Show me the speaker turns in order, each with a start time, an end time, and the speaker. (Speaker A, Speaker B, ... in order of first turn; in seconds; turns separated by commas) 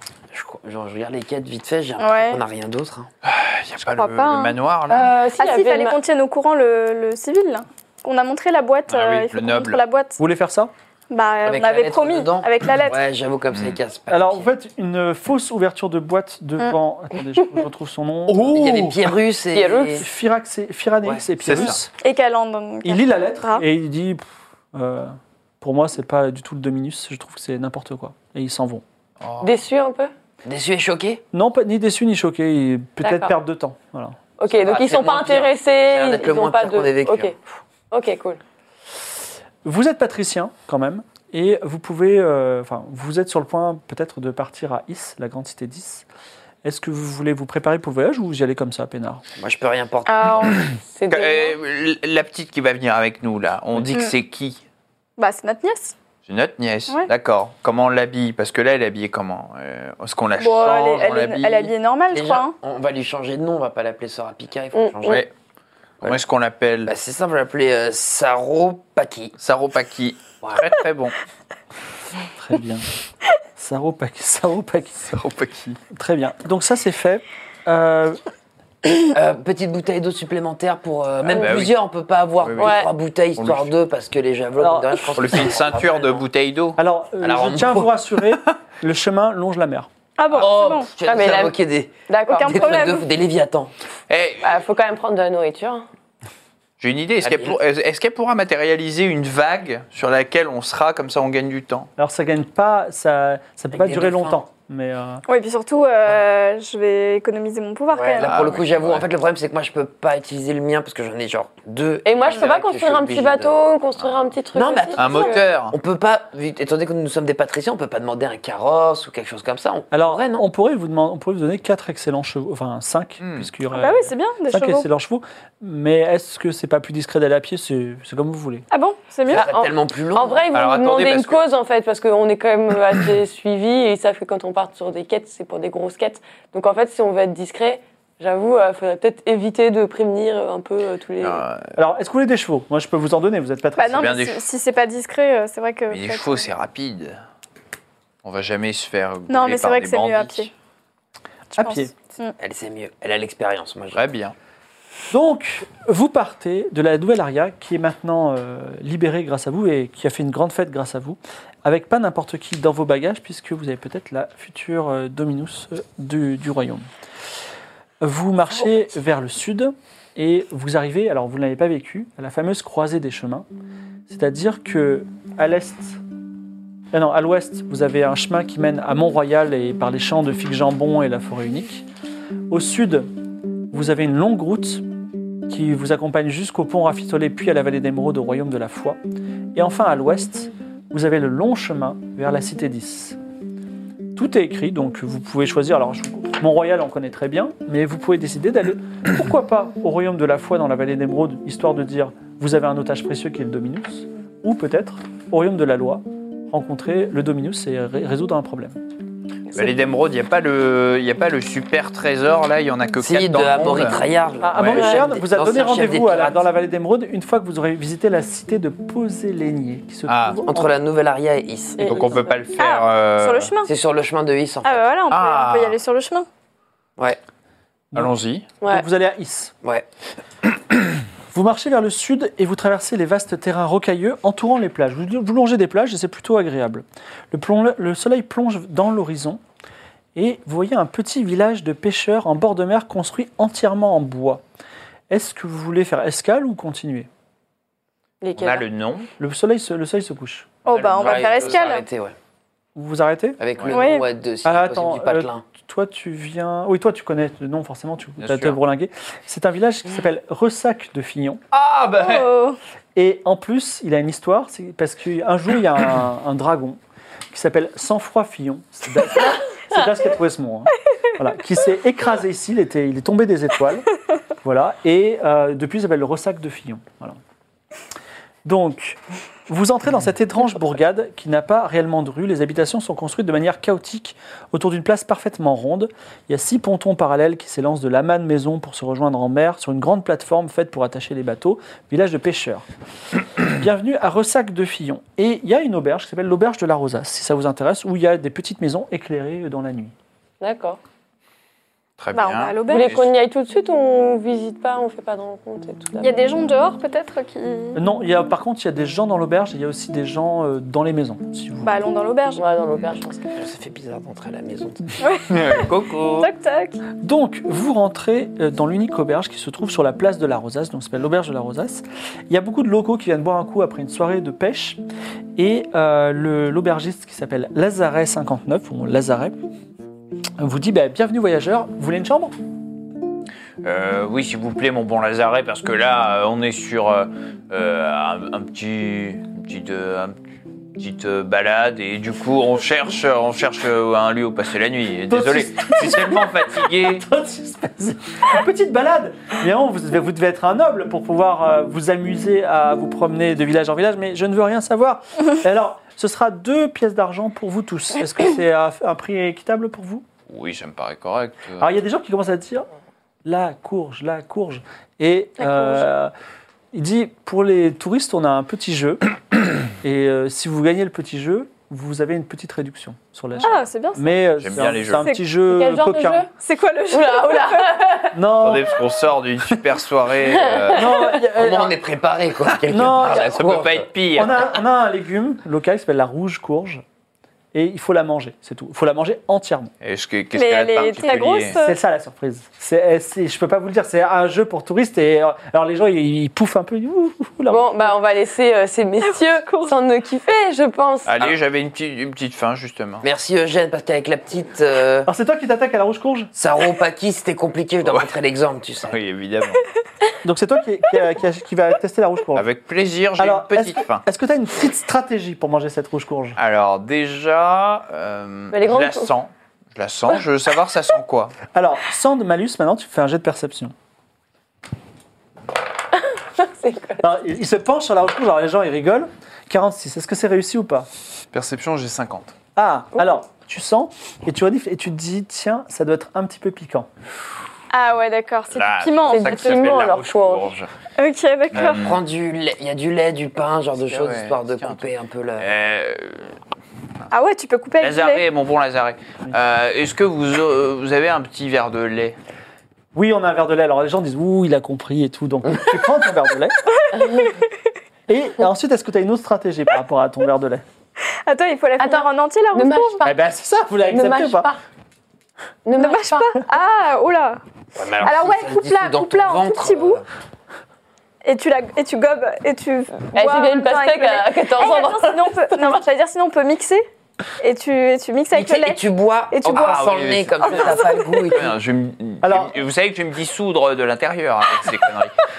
Speaker A: 0.3-3.1, Speaker B: 2.0-2.4, Speaker C: 3.2-5.1, Speaker B: 4.0-4.6, Speaker D: 4.9-6.0, Speaker B: 5.4-10.2, Speaker C: 8.9-9.8, Speaker E: 10.2-10.7, Speaker B: 11.1-13.0, Speaker A: 11.4-14.5, Speaker C: 13.5-13.8, Speaker E: 14.1-18.9, Speaker C: 18.3-18.9, Speaker A: 18.4-20.1, Speaker D: 19.5-20.0, Speaker E: 20.0-21.9, Speaker C: 21.4-21.8, Speaker B: 22.0-23.6, Speaker E: 22.8-28.8, Speaker C: 29.2-29.5, Speaker D: 29.4-30.1, Speaker A: 30.4-31.2, Speaker E: 31.3-34.2, Speaker D: 33.0-33.3, Speaker D: 34.4-37.3, Speaker A: 34.5-37.3, Speaker D: 37.9-38.4, Speaker E: 39.6-46.0, Speaker E: 46.6-49.2, Speaker A: 49.4-50.7, Speaker B: 50.0-50.6, Speaker D: 50.9-51.6, Speaker C: 51.1-54.6, Speaker B: 55.2-55.9, Speaker C: 56.2-61.7, Speaker B: 60.4-62.5, Speaker A: 62.1-65.2, Speaker D: 64.7-65.2, Speaker C: 65.0-65.3, Speaker C: 66.0-66.9, Speaker A: 66.9-69.3, Speaker C: 69.4-71.1, Speaker E: 72.3-72.8, Speaker E: 73.5-75.1, Speaker C: 75.0-75.8, Speaker E: 75.8-78.2, Speaker A: 79.1-86.2, Speaker C: 81.2-81.8, Speaker C: 82.4-82.8, Speaker D: 82.6-82.9, Speaker C: 83.3-83.7, Speaker E: 84.6-85.4, Speaker C: 85.1-86.8, Speaker E: 86.8-89.9, Speaker A: 87.2-87.9, Speaker B: 90.2-90.9, Speaker A: 90.3-93.7, Speaker D: 91.0-91.6, Speaker D: 92.1-93.0, Speaker B: 92.3-93.0, Speaker C: 94.1-94.5, Speaker D: 94.4-95.8, Speaker C: 96.8-101.9, Speaker A: 97.2-97.6, Speaker E: 102.0-105.2, Speaker A: 103.7-104.4, Speaker B: 105.3-108.3, Speaker A: 107.9-113.6, Speaker C: 108.2-109.0, Speaker D: 112.0-115.4, Speaker A: 114.5-120.4, Speaker C: 115.0-115.7, Speaker E: 119.9-128.6, Speaker C: 123.2-123.5, Speaker B: 123.7-124.8, Speaker B: 128.7-129.5, Speaker A: 129.3-130.4, Speaker D: 129.3-141.4, Speaker C: 130.5-131.4, Speaker C: 141.2-141.7, Speaker E: 141.7-144.2, Speaker B: 143.8-146.5, Speaker C: 143.9-144.4, Speaker C: 145.9-147.2, Speaker C: 148.2-150.5, Speaker B: 149.3-150.5, Speaker B: 151.5-152.3, Speaker E: 151.6-151.9, Speaker A: 152.4-154.0, Speaker C: 153.9-154.3, Speaker E: 155.1-166.8, Speaker E: 168.0-173.5, Speaker E: 174.1-176.0, Speaker E: 176.9-181.9, Speaker E: 182.5-183.1, Speaker E: 183.7-184.8, Speaker E: 185.5-189.0, Speaker E: 189.5-193.2, Speaker E: 194.1-208.8, Speaker C: 209.5-214.0, Speaker A: 213.0-216.4, Speaker E: 214.4-220.7, Speaker C: 214.5-214.9, Speaker C: 220.1-220.4, Speaker A: 220.4-222.2, Speaker D: 221.8-222.2, Speaker C: 221.8-223.5, Speaker B: 222.6-223.7, Speaker A: 223.6-224.8, Speaker B: 224.6-226.3, Speaker C: 225.1-225.8, Speaker E: 227.9-229.5, Speaker C: 227.9-228.4, Speaker D: 228.6-228.8, Speaker E: 231.3-239.4, Speaker E: 240.1-244.4, Speaker E: 245.1-247.1, Speaker D: 248.2-248.6, Speaker C: 248.3-249.1, Speaker E: 249.2-250.5, Speaker B: 250.7-251.8, Speaker A: 250.7-252.1, Speaker C: 250.9-251.5, Speaker E: 252.8-253.4, Speaker A: 253.4-255.4, Speaker B: 253.7-254.0, Speaker E: 254.4-261.4, Speaker C: 258.2-258.6, Speaker C: 261.5-262.3, Speaker B: 262.0-262.6, Speaker E: 262.9-266.8, Speaker E: 267.3-273.9, Speaker E: 274.4-277.2, Speaker E: 278.4-292.6, Speaker E: 293.4-299.9, Speaker D: 300.4-300.8, Speaker C: 302.0-303.1, Speaker B: 302.1-302.9, Speaker D: 302.7-306.2, Speaker B: 306.0-307.8, Speaker E: 307.7-311.7, Speaker B: 311.6-312.4, Speaker D: 312.4-313.3, Speaker A: 313.3-314.9, Speaker B: 315.0-316.8, Speaker C: 315.3-316.3, Speaker E: 317.0-324.8, Speaker E: 325.4-329.4, Speaker E: 330.4-332.3, Speaker C: 333.6-340.1, Speaker C: 340.8-347.1, Speaker E: 345.1-360.0, Speaker C: 360.3-361.7, Speaker E: 361.6-362.6, Speaker E: 363.2-366.1, Speaker B: 365.4-365.9, Speaker E: 366.7-369.0, Speaker E: 369.8-376.2, Speaker B: 373.4-374.1, Speaker C: 374.4-375.1, Speaker B: 375.0-375.2, Speaker D: 375.5-376.3, Speaker B: 376.3-377.8, Speaker D: 376.9-378.2, Speaker E: 378.1-378.8, Speaker C: 378.4-381.1, Speaker D: 380.3-381.2, Speaker E: 380.7-381.8, Speaker A: 381.3-383.9, Speaker E: 382.7-383.4, Speaker C: 382.8-384.5, Speaker E: 384.1-386.8, Speaker E: 387.5-389.7, Speaker C: 389.8-391.6, Speaker B: 390.3-391.8, Speaker E: 391.5-397.9, Speaker D: 397.5-401.1, Speaker B: 399.0-399.7, Speaker C: 401.1-403.0, Speaker A: 403.0-405.1, Speaker E: 405.1-406.3, Speaker A: 406.3-408.9, Speaker C: 407.8-408.1, Speaker C: 408.9-409.6, Speaker E: 410.2-412.4, Speaker C: 412.3-414.0, Speaker E: 413.2-416.4, Speaker C: 416.4-421.4, Speaker D: 418.5-419.1, Speaker E: 421.5-423.7, Speaker D: 426.0-427.0, Speaker E: 427.0-430.9, Speaker C: 431.3-432.3, Speaker E: 432.6-436.9, Speaker B: 437.7-439.8, Speaker C: 438.5-440.7, Speaker D: 439.1-440.6, Speaker B: 441.0-441.8, Speaker C: 441.5-442.0, Speaker A: 441.5-445.5, Speaker C: 443.9-444.9, Speaker C: 445.4-446.3, Speaker B: 447.1-448.2, Speaker C: 447.8-452.2, Speaker E: 452.9-456.6, Speaker B: 456.8-457.3, Speaker D: 456.9-457.4, Speaker E: 458.1-460.6, Speaker B: 461.2-463.0, Speaker D: 461.8-463.2, Speaker E: 463.0-464.5, Speaker D: 463.9-464.6, Speaker D: 465.6-466.4, Speaker B: 465.8-467.4, Speaker A: 467.8-470.0, Speaker B: 468.0-470.0, Speaker B: 471.2-476.9, Speaker D: 473.1-475.8, Speaker B: 477.4-481.3, Speaker A: 478.3-481.5, Speaker C: 479.6-485.1, Speaker E: 482.2-482.6